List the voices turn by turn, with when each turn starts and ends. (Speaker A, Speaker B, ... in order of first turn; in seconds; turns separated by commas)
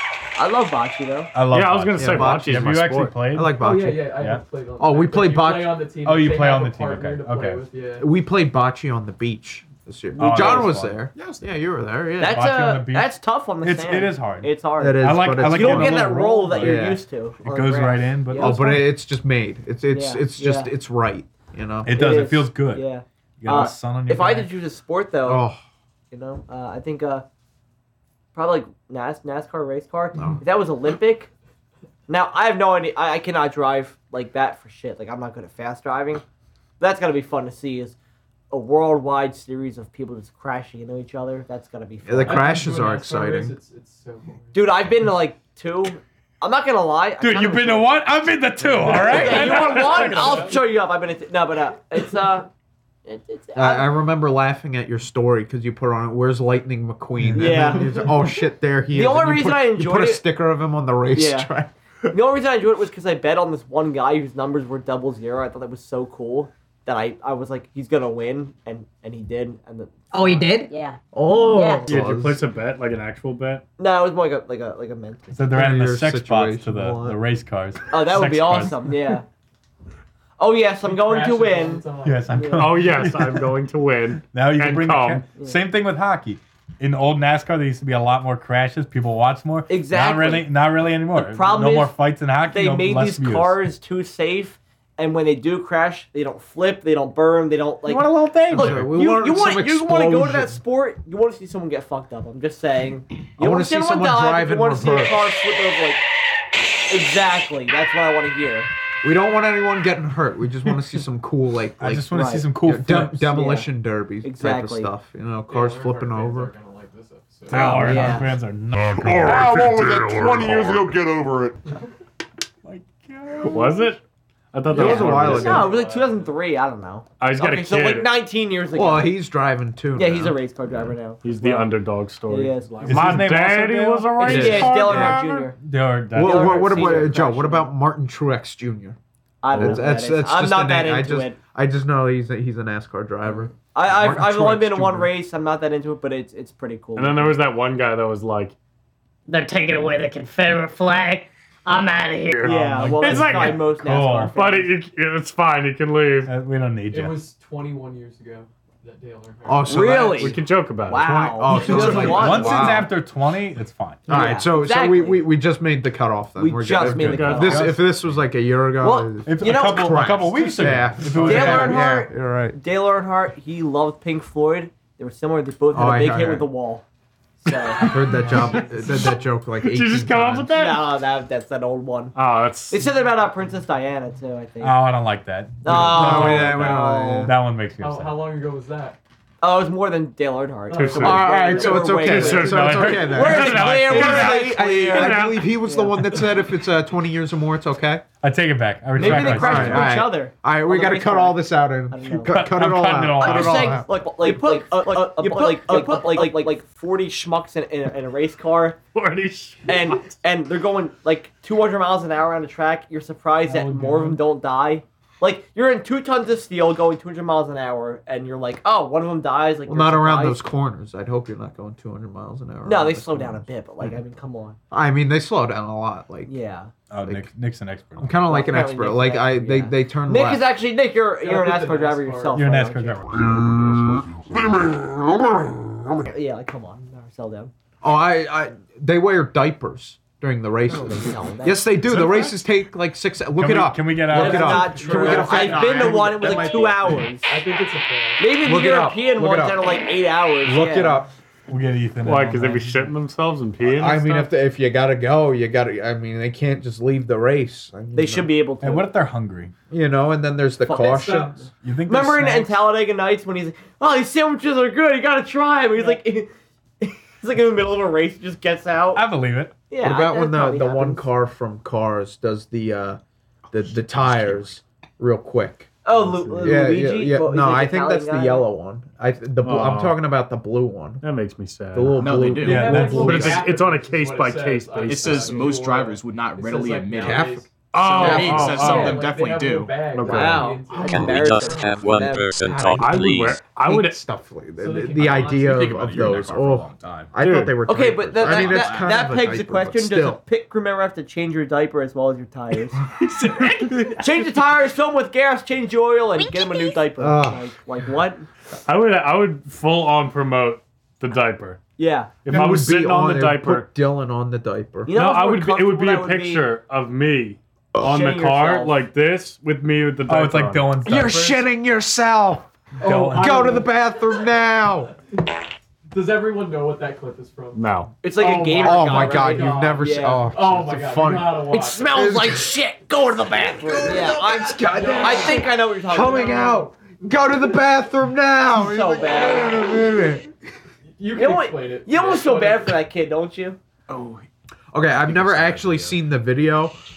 Speaker A: 0.4-1.3, Speaker B: 1.3-4.4, Speaker C: 1.5-3.3, Speaker D: 2.0-2.7, Speaker D: 3.3-4.2, Speaker E: 3.6-8.1, Speaker D: 4.8-5.9, Speaker B: 6.0-7.7, Speaker D: 8.0-12.4, Speaker B: 10.2-11.1, Speaker F: 11.1-11.6, Speaker A: 12.2-18.6, Speaker B: 12.2-18.9, Speaker D: 14.8-17.0, Speaker D: 18.3-22.3, Speaker A: 19.9-20.7, Speaker B: 21.8-22.9, Speaker A: 21.9-25.4, Speaker B: 23.4-24.5, Speaker D: 25.2-25.6, Speaker A: 26.1-27.2, Speaker A: 28.4-31.3, Speaker D: 30.1-30.4, Speaker A: 32.1-36.2, Speaker A: 36.8-38.0, Speaker A: 38.5-42.6, Speaker D: 42.0-43.6, Speaker E: 42.2-44.7, Speaker A: 44.5-48.0, Speaker B: 47.2-50.6, Speaker E: 48.8-50.5, Speaker A: 48.8-52.5, Speaker A: 53.1-53.9, Speaker D: 53.5-61.7, Speaker B: 57.2-57.9, Speaker A: 57.4-58.0, Speaker A: 58.9-60.2, Speaker A: 61.1-61.5, Speaker A: 62.1-70.5, Speaker G: 70.1-71.9, Speaker D: 71.1-72.4, Speaker C: 71.9-73.6, Speaker A: 73.8-75.4, Speaker B: 75.3-79.0, Speaker D: 75.5-77.2, Speaker A: 77.9-79.2, Speaker A: 80.4-82.7, Speaker E: 80.8-82.5, Speaker B: 82.0-83.5, Speaker C: 82.6-85.2, Speaker B: 84.2-93.6, Speaker A: 89.7-90.6, Speaker A: 91.1-92.0, Speaker A: 92.5-106.0, Speaker B: 97.8-98.9, Speaker D: 98.5-100.6, Speaker D: 103.4-105.3, Speaker A: 106.9-108.7, Speaker D: 109.0-116.5, Speaker B: 111.8-113.3, Speaker A: 112.1-112.5, Speaker A: 113.3-113.7, Speaker A: 114.2-114.9, Speaker E: 115.5-117.9, Speaker B: 117.5-121.0, Speaker D: 117.5-118.2, Speaker C: 117.5-118.1, Speaker A: 117.6-118.3, Speaker H: 119.1-121.6, Speaker B: 122.7-124.0, Speaker C: 123.5-124.0, Speaker C: 124.5-125.7, Speaker D: 124.7-125.8, Speaker A: 124.7-129.1, Speaker E: 125.0-126.3, Speaker C: 127.2-128.1, Speaker D: 128.7-130.4, Speaker A: 129.9-131.2, Speaker C: 131.2-135.2, Speaker A: 132.3-133.1, Speaker E: 132.8-133.3, Speaker B: 132.8-137.1, Speaker A: 134.2-135.6, Speaker D: 134.3-135.3, Speaker D: 136.1-139.0, Speaker A: 136.2-137.7, Speaker A: 139.4-141.4, Speaker D: 139.5-145.1, Speaker A: 143.3-147.4, Speaker C: 147.0-148.6, Speaker G: 149.3-152.5, Speaker C: 152.3-153.7, Speaker A: 152.4-154.8, Speaker B: 152.5-154.3, Speaker C: 154.3-156.3, Speaker B: 156.2-157.2, Speaker E: 156.9-159.9, Speaker D: 159.4-160.4, Speaker A: 159.7-162.8, Speaker C: 160.1-162.1, Speaker D: 161.2-162.9, Speaker B: 161.6-164.0, Speaker A: 164.1-165.3, Speaker D: 164.1-172.6, Speaker A: 166.4-167.8, Speaker B: 166.9-168.2, Speaker C: 167.0-167.7, Speaker A: 168.8-170.2, Speaker B: 169.2-171.9, Speaker A: 171.2-176.8, Speaker D: 175.7-176.5, Speaker A: 177.4-177.9, Speaker D: 177.8-180.5, Speaker E: 178.2-178.6, Speaker C: 178.9-180.9, Speaker A: 180.5-182.2, Speaker C: 182.2-182.9, Speaker A: 182.7-184.8, Speaker B: 184.6-188.3, Speaker A: 185.6-187.3, Speaker D: 185.7-187.4, Speaker E: 187.8-189.0, Speaker A: 189.4-196.2, Speaker E: 190.7-192.4, Speaker C: 190.7-191.2, Speaker D: 191.0-198.1, Speaker B: 192.0-194.2, Speaker C: 192.1-195.6, Speaker B: 198.2-199.9, Speaker A: 199.0-202.5, Speaker D: 199.0-204.0, Speaker B: 202.2-203.9, Speaker A: 203.2-208.8, Speaker E: 205.1-206.3, Speaker D: 205.7-205.9, Speaker C: 208.9-210.2, Speaker A: 209.7-220.4, Speaker B: 213.5-214.1, Speaker D: 219.7-223.9, Speaker A: 222.6-224.6, Speaker D: 224.7-226.3, Speaker A: 226.3-226.7, Speaker B: 226.9-228.4, Speaker D: 227.0-227.3, Speaker D: 228.0-230.5, Speaker A: 228.3-233.0, Speaker E: 231.2-232.6, Speaker B: 232.3-233.5, Speaker D: 233.2-234.0, Speaker A: 236.1-237.5, Speaker D: 237.8-246.9, Speaker A: 240.7-241.7, Speaker B: 241.9-242.3, Speaker B: 243.3-245.1, Speaker A: 244.1-247.3, Speaker E: 244.4-248.3, Speaker A: 248.2-251.0, Speaker D: 248.4-249.7, Speaker D: 250.4-251.1, Speaker B: 251.5-253.0, Speaker C: 252.0-254.3, Speaker D: 253.6-258.3, Speaker A: 257.9-258.9, Speaker B: 258.6-259.6, Speaker D: 259.7-261.4, Speaker A: 260.6-266.3, Speaker E: 260.9-261.5, Speaker B: 261.6-262.6, Speaker A: 266.8-269.1, Speaker B: 268.9-269.6, Speaker A: 269.7-271.1, Speaker D: 269.8-273.0, Speaker D: 273.5-281.1, Speaker F: 273.6-274.5, Speaker A: 275.9-278.5, Speaker C: 279.4-280.0, Speaker C: 281.0-282.1, Speaker D: 281.7-283.4, Speaker F: 281.9-283.1, Speaker B: 282.4-283.5, Speaker E: 282.4-291.8, Speaker C: 282.9-285.3, Speaker F: 284.8-290.0, Speaker D: 287.0-287.4, Speaker C: 287.7-289.1, Speaker D: 288.0-288.5, Speaker C: 289.9-290.6, Speaker A: 290.1-292.3, Speaker I: 290.8-293.4, Speaker D: 292.5-293.0, Speaker C: 292.8-294.0, Speaker D: 293.6-300.2, Speaker E: 294.6-295.6, Speaker F: 294.9-297.1, Speaker C: 297.2-297.6, Speaker A: 297.7-302.8, Speaker F: 298.2-299.1, Speaker A: 303.9-308.3, Speaker D: 307.0-307.4, Speaker C: 308.7-311.6, Speaker A: 311.8-312.1, Speaker C: 312.2-313.7, Speaker D: 312.3-314.9, Speaker A: 314.9-316.5, Speaker C: 314.9-320.7, Speaker A: 317.8-318.8, Speaker B: 320.1-321.5, Speaker D: 320.9-322.5, Speaker E: 322.8-323.7, Speaker B: 322.8-323.7, Speaker D: 323.1-324.9, Speaker E: 325.9-332.5, Speaker C: 327.6-327.9, Speaker A: 328.0-330.3, Speaker D: 328.5-332.6, Speaker A: 331.5-336.7, Speaker D: 333.3-340.3, Speaker E: 333.6-336.6, Speaker A: 338.6-339.6, Speaker E: 341.0-342.8, Speaker A: 341.1-343.6, Speaker F: 343.9-344.3, Speaker D: 344.7-346.8, Speaker F: 344.9-346.0